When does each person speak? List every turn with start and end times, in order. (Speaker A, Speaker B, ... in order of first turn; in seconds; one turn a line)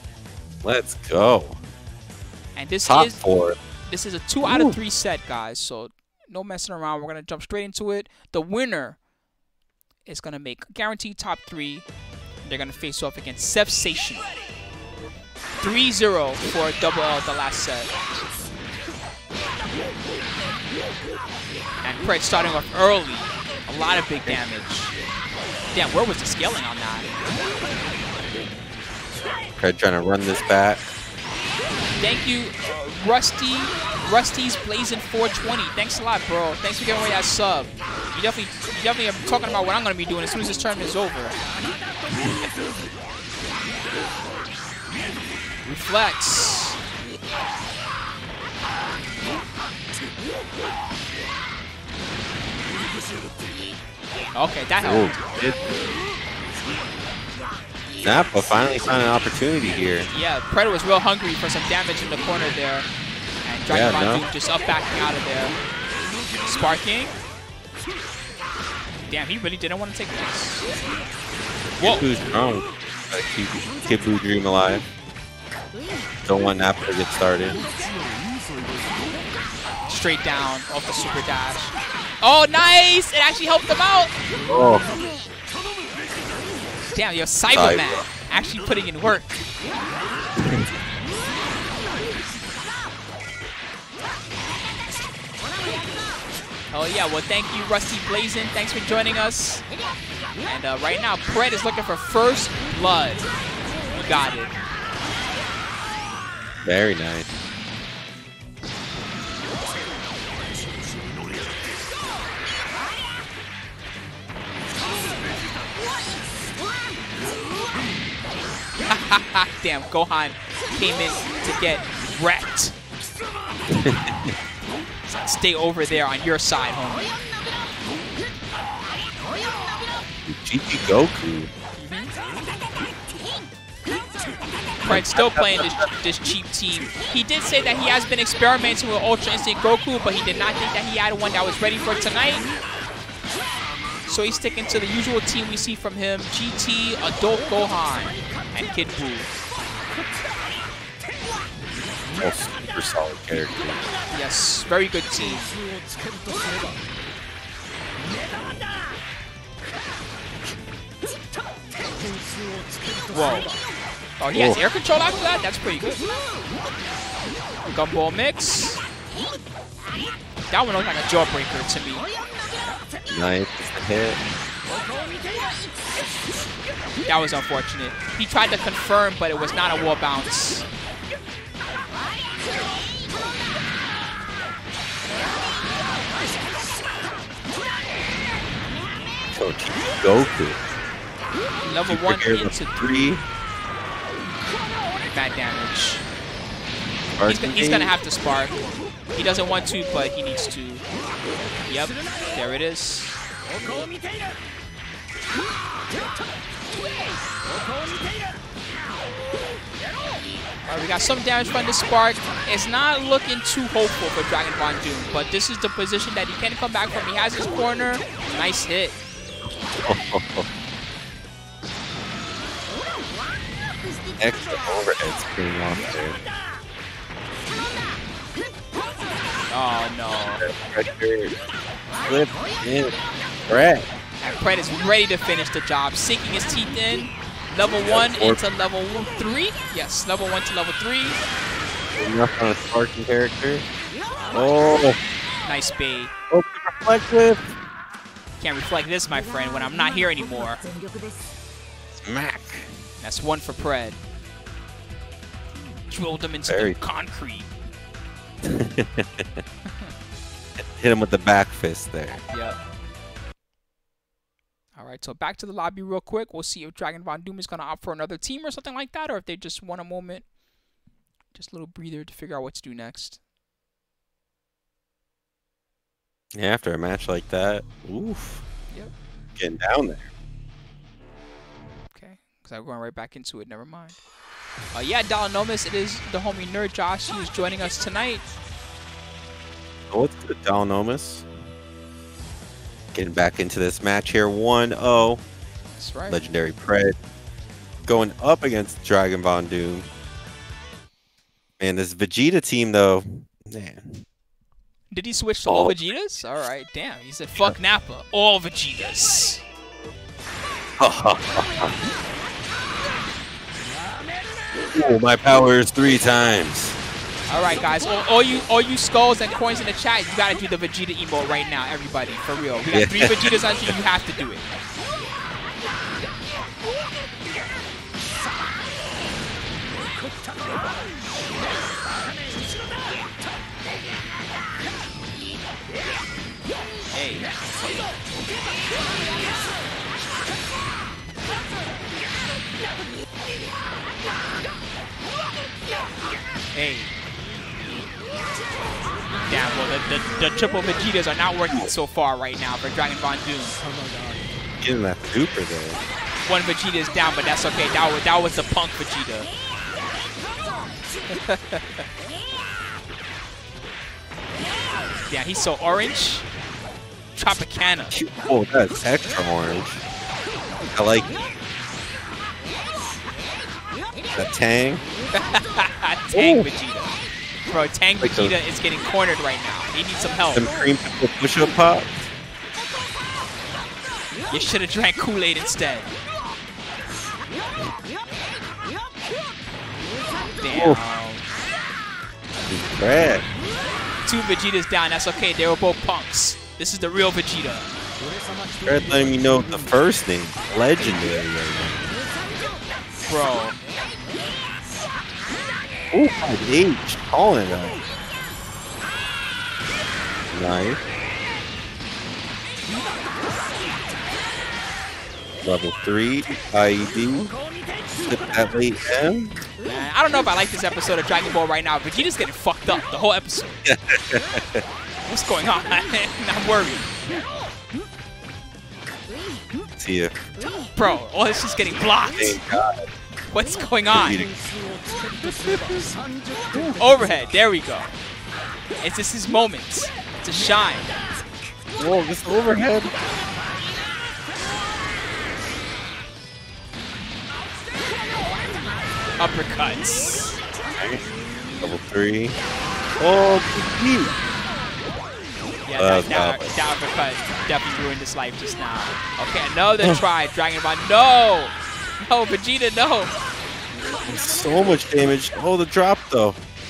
Speaker A: 0.6-1.6
Speaker B: 2.5-3.2
Speaker A: 2.9-3.6
Speaker B: 3.9-9.0
Speaker A: 4.4-4.8
Speaker B: 10.1-11.8
Speaker B: 12.4-14.3
Speaker B: 15.6-17.9
Speaker B: 21.8-24.9
Speaker B: 25.7-27.1
Speaker A: 29.6-30.8
Speaker B: 32.0-41.4
Speaker B: 45.6-46.8
Speaker B: 54.3-55.2
Speaker A: 54.8-55.6
Speaker A: 58.0-60.1
Speaker B: 60.1-62.9
Speaker B: 63.4-65.5
Speaker A: 63.7-64.2
Speaker B: 66.4-67.1
Speaker B: 69.1-70.6
Speaker A: 71.8-74.9
Speaker A: 76.2-77.6
Speaker B: 79.9-84.1
Speaker A: 84.5-84.9
Speaker B: 86.9-89.4
Speaker A: 87.5-87.9
Speaker A: 90.4-90.7
Speaker B: 96.7-99.7
Speaker B: 100.4-103.3
Speaker B: 103.9-104.5
Speaker A: 106.6-107.3
Speaker B: 118.8-122.7
Speaker A: 123.7-124.3
Speaker B: 125.2-127.1
Speaker A: 130.2-131.5
Speaker B: 131.8-132.1
Speaker B: 134.8-142.4
Speaker A: 134.8-135.9
Speaker B: 144.1-149.3
Speaker A: 152.2-153.8
Speaker B: 154.1-155.6
Speaker B: 163.1-163.5
Speaker B: 164.2-166.0
Speaker A: 164.3-164.6
Speaker B: 167.7-168.8
Speaker B: 170.5-172.1
Speaker A: 173.1-174.2
Speaker B: 177.0-180.7
Speaker A: 189.3-190.6
Speaker B: 191.7-193.1
Speaker A: 191.8-193.2
Speaker B: 195.1-196.0
Speaker A: 197.2-197.9
Speaker B: 197.3-198.6
Speaker B: 199.1-200.8
Speaker B: 201.7-203.2
Speaker B: 210.6-219.0
Speaker A: 219.8-220.4
Speaker A: 224.2-226.2
Speaker B: 229.5-230.4
Speaker A: 230.4-231.3
Speaker A: 232.0-232.9
Speaker A: 233.5-233.9
Speaker B: 234.2-241.2
Speaker A: 237.8-238.4
Speaker A: 242.0-243.6
Speaker A: 244.3-245.0
Speaker B: 245.4-246.1
Speaker A: 246.3-247.5
Speaker B: 248.4-250.7
Speaker A: 251.9-252.7
Speaker B: 253.0-254.0
Speaker B: 255.9-257.5
Speaker A: 256.5-256.8
Speaker A: 258.4-259.3
Speaker B: 259.6-259.9
Speaker A: 260.8-262.2
Speaker B: 262.3-262.6
Speaker B: 264.8-270.2
Speaker B: 271.3-273.2
Speaker A: 276.4-278.4
Speaker A: 279.4-280.1
Speaker B: 281.9-284.0
Speaker B: 284.7-288.2
Speaker A: 289.9-291.3
Speaker A: 292.9-295.2
Speaker B: 295.8-296.3
Speaker A: 296.1-296.9
Speaker A: 297.9-299.9
Speaker A: 301.6-304.0
Speaker B: 304.9-309.4
Speaker A: 305.5-305.8
Speaker A: 310.8-311.7
Speaker A: 314.5-316.8
Speaker B: 317.3-324.4
Speaker A: 322.7-323.7
Speaker B: 336.9-337.3
Speaker B: 346.5-346.9
Speaker B: 349.3-353.6
Speaker A: 354.6-355.8
Speaker B: 356.2-359.3
Speaker B: 361.1-361.8
Speaker B: 365.1-366.3
Speaker B: 367.1-367.9
Speaker A: 367.9-369.8
Speaker A: 370.7-371.1
Speaker A: 374.1-374.8
Speaker B: 375.1-376.9
Speaker A: 376.1-376.5
Speaker B: 377.5-380.4
Speaker A: 378.0-378.3
Speaker A: 380.3-382.0
Speaker B: 384.3-385.9
Speaker B: 390.4-391.2
Speaker A: 390.5-390.8
Speaker A: 392.5-393.2
Speaker B: 394.0-397.7
Speaker A: 398.6-401.9
Speaker B: 403.1-403.6
Speaker A: 405.9-407.8
Speaker A: 410.3-410.8
Speaker A: 415.4-417.4
Speaker A: 418.0-419.4
Speaker B: 419.6-423.5
Speaker A: 423.6-424.6
Speaker B: 425.1-426.9
Speaker A: 429.8-430.1
Speaker B: 430.8-432.4
Speaker A: 432.2-432.8
Speaker B: 433.3-434.2
Speaker A: 433.9-434.3
Speaker B: 435.2-435.9
Speaker A: 436.5-436.8
Speaker B: 436.8-437.9
Speaker B: 438.8-440.9
Speaker A: 441.8-442.9
Speaker B: 449.2-450.4
Speaker A: 450.8-451.0
Speaker A: 451.6-452.4
Speaker A: 453.0-454.1
Speaker B: 455.6-463.1
Speaker A: 455.8-456.6
Speaker A: 464.1-466.4